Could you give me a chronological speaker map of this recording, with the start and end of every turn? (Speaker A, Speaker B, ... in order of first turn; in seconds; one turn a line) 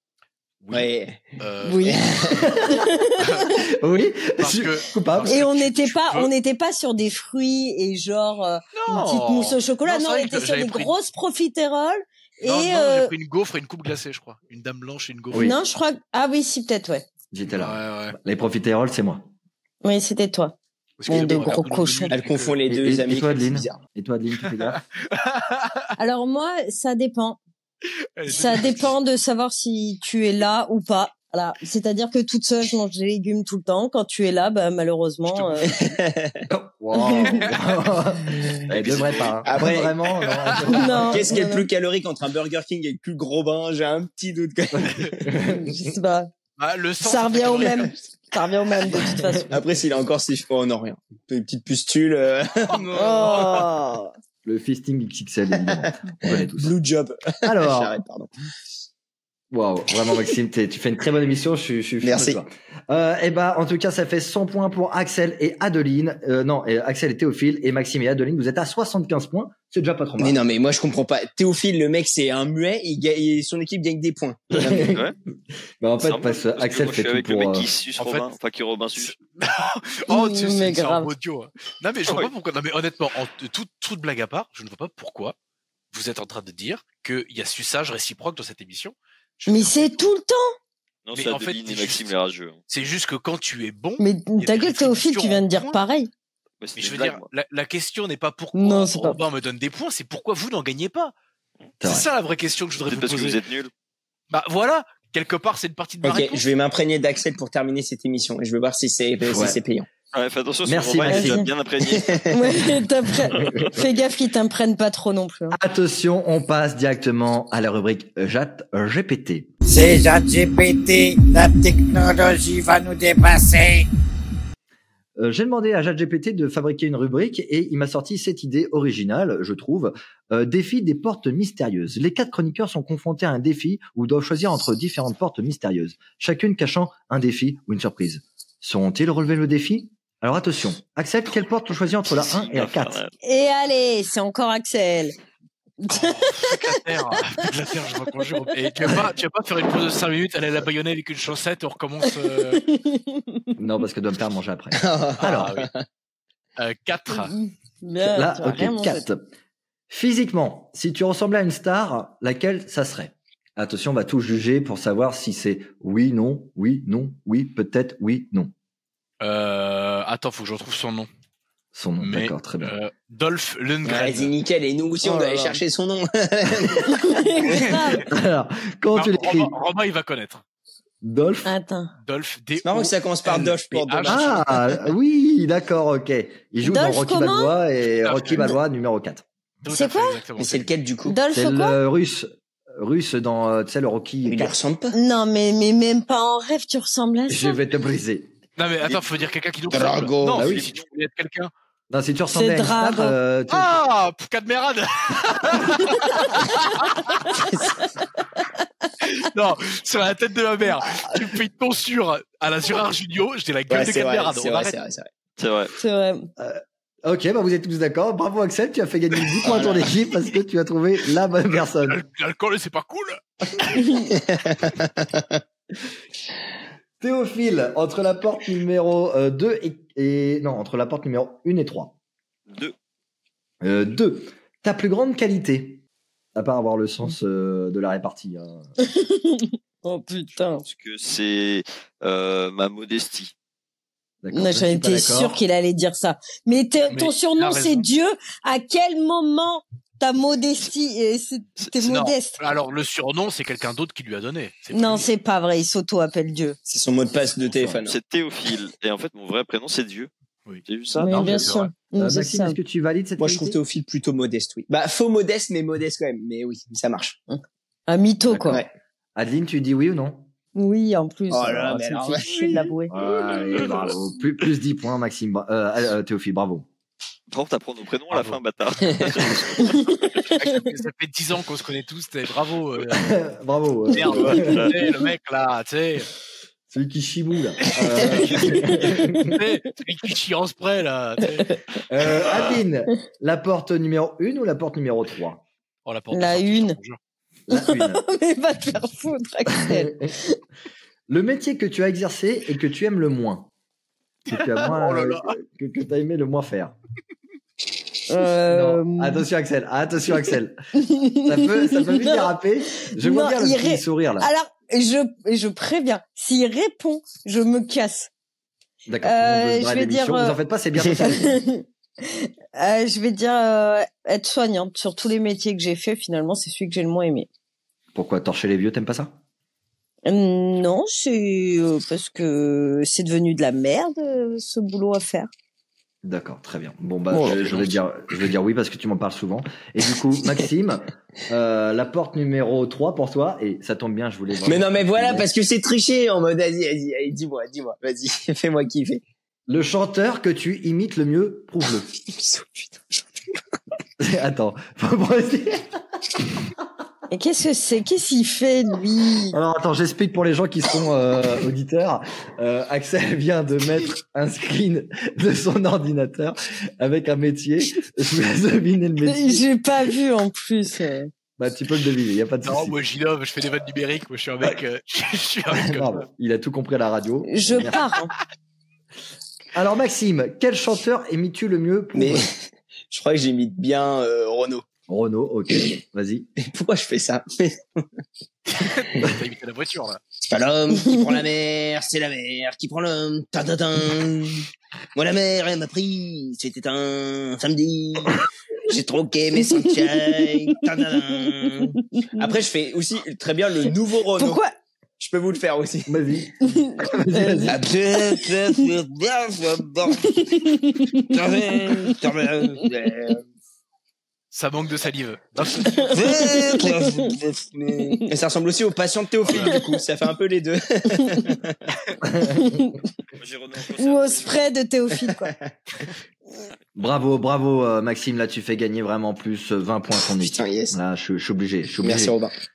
Speaker A: 0.6-2.0
Speaker B: 0.7-1.2
Speaker C: 1.6-2.0
Speaker B: 1.9-2.5
Speaker D: 2.3-2.8
Speaker C: 2.6-3.5
Speaker A: 3.2-3.5
Speaker D: 3.5-5.4
Speaker A: 4.4-6.3
Speaker C: 5.3-13.1
Speaker A: 8.7-10.9
Speaker A: 12.4-15.5
Speaker D: 15.3-15.6
Speaker C: 15.3-17.0
Speaker D: 17.3-19.3
Speaker A: 17.5-18.2
Speaker C: 19.8-20.6
Speaker A: 21.0-22.6
Speaker C: 21.1-22.1
Speaker B: 22.1-23.8
Speaker D: 22.7-24.8
Speaker A: 24.5-25.9
Speaker C: 26.0-27.4
Speaker A: 28.2-28.9
Speaker C: 28.3-35.7
Speaker A: 35.2-36.0
Speaker B: 35.7-36.4
Speaker D: 36.5-41.4
Speaker C: 37.0-37.4
Speaker A: 37.2-37.8
Speaker A: 38.7-41.0
Speaker B: 39.4-39.9
Speaker C: 40.7-41.7
Speaker B: 41.0-45.3
Speaker D: 44.8-45.8
Speaker C: 45.4-46.3
Speaker A: 46.6-48.1
Speaker C: 47.0-49.5
Speaker B: 49.5-53.7
Speaker C: 52.9-54.1
Speaker D: 54.4-56.7
Speaker B: 55.6-58.3
Speaker D: 57.4-58.0
Speaker D: 59.5-70.4
Speaker B: 62.0-62.4
Speaker B: 70.2-74.8
Speaker D: 74.6-75.1
Speaker E: 74.7-75.1
Speaker D: 75.8-77.7
Speaker E: 76.0-79.2
Speaker A: 78.0-78.3
Speaker A: 79.0-85.3
Speaker C: 80.1-81.1
Speaker A: 85.9-90.0
Speaker C: 89.5-90.5
Speaker E: 91.0-92.6
Speaker A: 91.1-92.1
Speaker A: 92.7-95.8
Speaker C: 94.0-96.1
Speaker E: 96.6-97.2
Speaker A: 96.8-101.1
Speaker C: 98.5-99.2
Speaker D: 101.8-102.1
Speaker A: 101.8-103.4
Speaker E: 102.9-103.7
Speaker A: 104.3-106.4
Speaker B: 106.0-109.9
Speaker D: 109.2-109.6
Speaker E: 110.1-112.2
Speaker D: 110.7-111.4
Speaker C: 111.1-111.5
Speaker B: 111.9-112.3
Speaker C: 112.3-115.6
Speaker D: 113.5-113.8
Speaker D: 115.5-119.5
Speaker F: 119.7-123.9
Speaker D: 125.2-143.0
Speaker E: 142.2-143.1
Speaker C: 143.2-145.1
Speaker C: 145.8-147.4
Speaker A: 145.9-152.6
Speaker C: 152.0-153.5
Speaker D: 153.6-155.6
Speaker B: 154.8-155.8
Speaker A: 155.2-155.7
Speaker A: 156.6-157.3
Speaker C: 157.1-159.1
Speaker D: 158.0-159.2
Speaker D: 159.9-168.5
Speaker A: 169.2-171.1
Speaker D: 171.7-172.7
Speaker A: 172.0-174.3
Speaker B: 173.8-177.6
Speaker C: 175.1-175.6
Speaker C: 176.9-178.1
Speaker A: 177.5-178.1
Speaker D: 178.0-179.6
Speaker A: 178.9-180.4
Speaker D: 181.0-181.5
Speaker C: 181.4-181.9
Speaker A: 182.0-184.5
Speaker B: 182.6-184.6
Speaker D: 184.1-189.2
Speaker C: 186.6-187.5
Speaker A: 187.9-188.5
Speaker A: 189.6-190.7
Speaker C: 189.7-190.2
Speaker B: 190.4-191.2
Speaker C: 191.1-191.8
Speaker D: 191.3-194.5
Speaker B: 194.2-194.9
Speaker C: 194.9-197.6
Speaker D: 197.3-198.3
Speaker A: 198.6-201.5
Speaker B: 199.7-200.4
Speaker D: 200.3-200.7
Speaker E: 200.4-200.8
Speaker D: 201.9-203.7
Speaker C: 202.3-203.2
Speaker A: 203.5-207.1
Speaker C: 205.7-206.5
Speaker C: 207.2-208.7
Speaker B: 207.3-207.7
Speaker A: 209.0-214.8
Speaker B: 213.7-215.1
Speaker E: 215.4-215.7
Speaker C: 215.8-216.3
Speaker D: 216.4-222.0
Speaker B: 219.4-219.9
Speaker A: 221.6-223.8
Speaker B: 224.0-225.4
Speaker D: 227.0-231.9
Speaker E: 232.5-232.7
Speaker D: 233.6-235.8
Speaker D: 236.3-238.7
Speaker C: 238.8-240.6
Speaker E: 240.6-243.3
Speaker D: 244.2-245.4
Speaker C: 244.3-252.4
Speaker A: 246.9-247.8
Speaker A: 251.8-255.1
Speaker C: 254.7-256.6
Speaker B: 256.6-258.0
Speaker D: 257.5-257.8
Speaker E: 257.9-260.1
Speaker A: 260.4-261.7
Speaker E: 260.6-261.5
Speaker C: 261.0-262.6
Speaker D: 261.9-263.6
Speaker B: 263.2-267.2
Speaker C: 267.3-268.6
Speaker D: 268.2-268.6
Speaker D: 269.1-270.3
Speaker C: 270.5-272.9
Speaker B: 271.3-272.7
Speaker D: 272.9-276.7
Speaker E: 273.1-273.8
Speaker E: 277.3-280.3
Speaker A: 278.1-278.4
Speaker B: 278.9-279.3
Speaker C: 279.6-280.6
Speaker A: 280.3-283.2
Speaker D: 282.9-284.7
Speaker A: 283.9-286.1
Speaker E: 284.4-284.7
Speaker D: 286.7-289.4
Speaker A: 287.7-291.5
Speaker C: 288.3-289.1
Speaker D: 291.9-295.4
Speaker A: 295.9-297.0
Speaker C: 296.1-296.8
Speaker D: 297.5-298.0
Speaker C: 297.5-300.4
Speaker D: 299.6-300.1
Speaker D: 301.1-303.5
Speaker D: 304.3-306.7
Speaker A: 304.3-305.4
Speaker C: 308.1-309.2
Speaker D: 308.5-310.6
Speaker C: 310.7-318.1
Speaker D: 311.2-314.3
Speaker D: 318.9-321.4
Speaker C: 319.0-320.4
Speaker C: 321.2-327.3
Speaker D: 327.9-329.2
Speaker C: 330.1-335.3
Speaker D: 336.0-345.3
Speaker E: 337.2-337.7
Speaker B: 344.4-349.0
Speaker D: 349.5-351.9
Speaker B: 352.0-353.2
Speaker D: 354.0-355.7
Speaker C: 357.1-359.4
Speaker D: 359.3-369.4
Speaker C: 369.0-371.1
Speaker D: 371.4-372.8
Speaker A: 372.4-376.1
Speaker D: 375.5-377.8
Speaker C: 377.3-378.1
Speaker D: 379.5-382.3
Speaker B: 381.9-384.6
Speaker D: 384.9-386.3
Speaker B: 386.4-387.9
Speaker A: 388.5-390.0
Speaker B: 388.6-389.1
Speaker B: 390.2-404.4
Speaker C: 390.8-391.1
Speaker C: 399.4-400.6
Speaker C: 401.8-402.3
Speaker C: 404.2-404.5
Speaker B: 405.0-406.0
Speaker D: 405.9-407.8
Speaker C: 406.4-407.6
Speaker B: 407.5-413.2
Speaker C: 410.0-411.9
Speaker A: 414.3-416.2
Speaker B: 415.7-421.6
Speaker C: 415.9-417.1
Speaker A: 419.3-419.6
Speaker D: 422.1-422.4
Speaker C: 422.2-422.8
Speaker E: 423.1-424.4
Speaker C: 423.7-425.3
Speaker D: 426.8-432.2
Speaker B: 430.1-430.8
Speaker B: 431.8-432.3